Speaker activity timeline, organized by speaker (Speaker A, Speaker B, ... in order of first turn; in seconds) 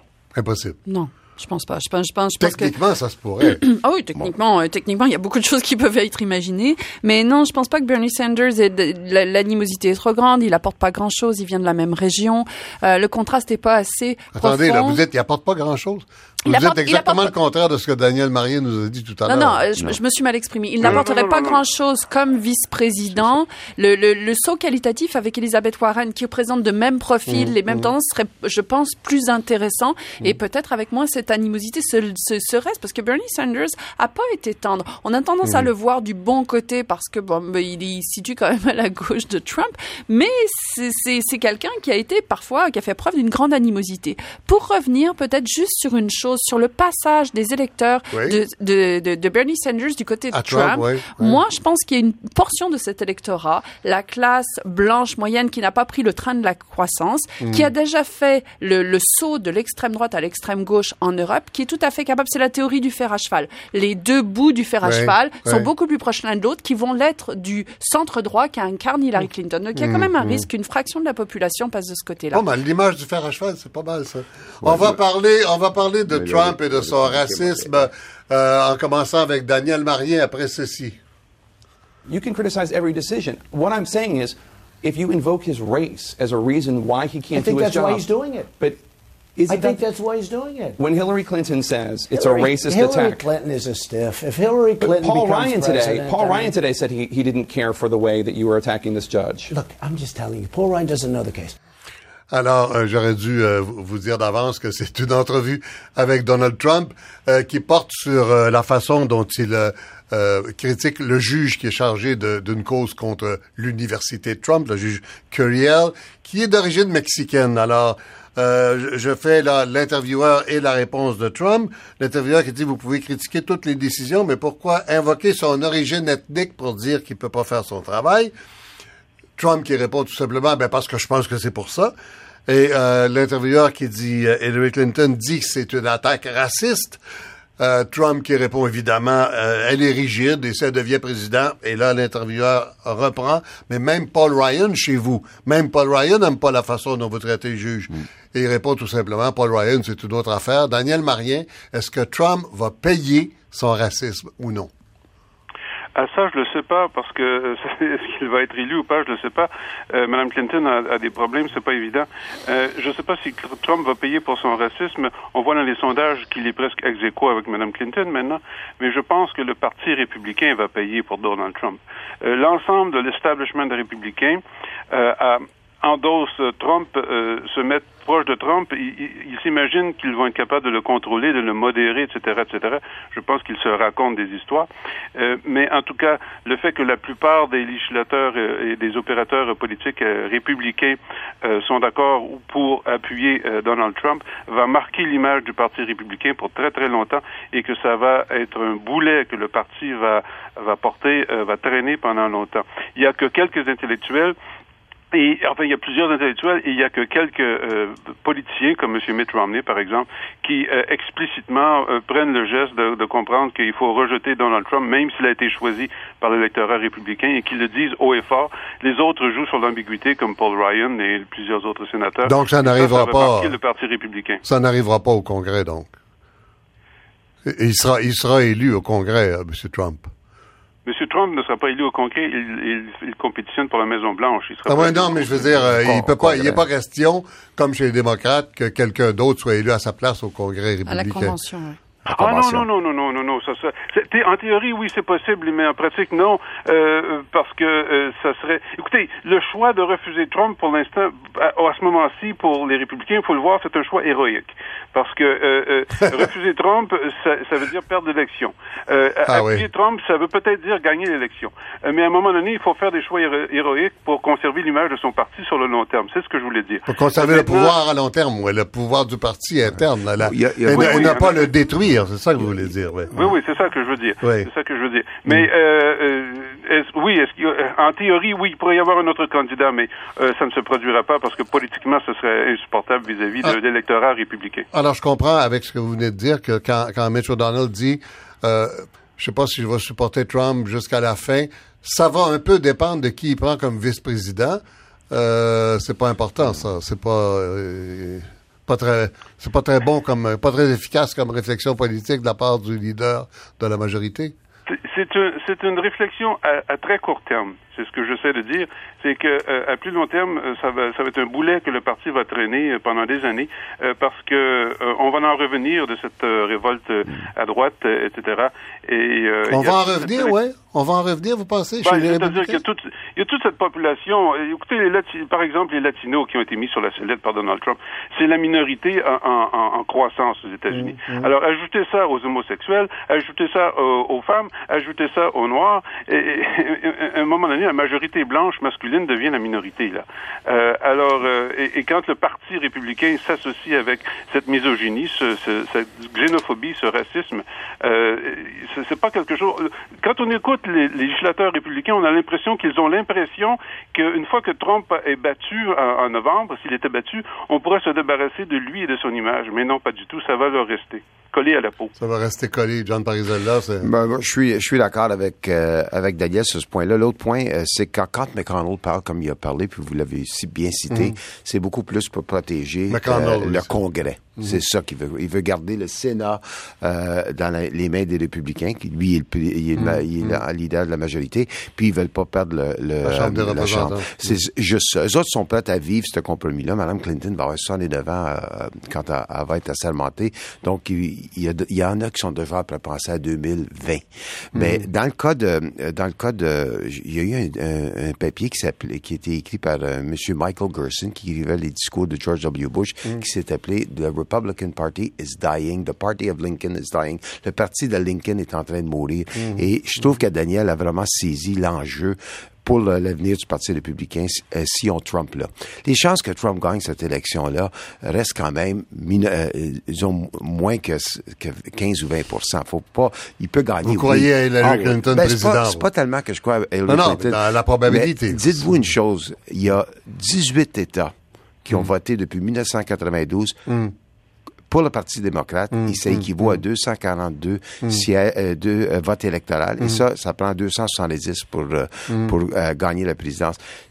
Speaker A: 0.3-0.8, 2.4-3.6, 14.3-19.6, 27.3-27.9, 48.1-48.4, 50.3-51.4, 57.4-57.7, 64.8-65.7, 69.8-70.5, 72.3-81.0, 102.3-128.3, 129.4-131.9, 132.5-137.0, 137.6-154.7, 222.3-223.6, 224.4-225.9, 227.4-230.1, 234.7-241.3, 259.3-259.7, 266.9-273.3, 274.2-274.5, 284.7-304.3, 319.5-322.6, 330.7-331.3, 362.0-363.9, 370.9-371.2, 372.9-373.7, 379.8-380.4, 383.0-384.4, 394.6-394.9, 409.4-409.6, 423.9-425.9, 426.9-428.7, 435.7-436.6
Speaker B: 0.9-2.7, 3.4-15.0, 16.4-17.3, 19.3-72.4, 240.9-241.8
Speaker C: 20.8-21.6, 155.9-204.4, 205.1-224.4, 230.8-235.5, 242.1-267.7, 270.7-271.4, 273.1-284.7, 304.7-320.4, 321.8-361.9
Speaker D: 74.6-75.0, 76.1-77.9, 235.8-236.7, 242.1-242.7, 270.2-271.3, 363.8-433.6, 434.7-443.6
Speaker E: 82.1-88.1, 89.4-89.8, 90.8-93.3, 94.8-99.5
Speaker F: 87.3-88.5, 89.5-90.8, 92.1-96.6, 99.5-101.5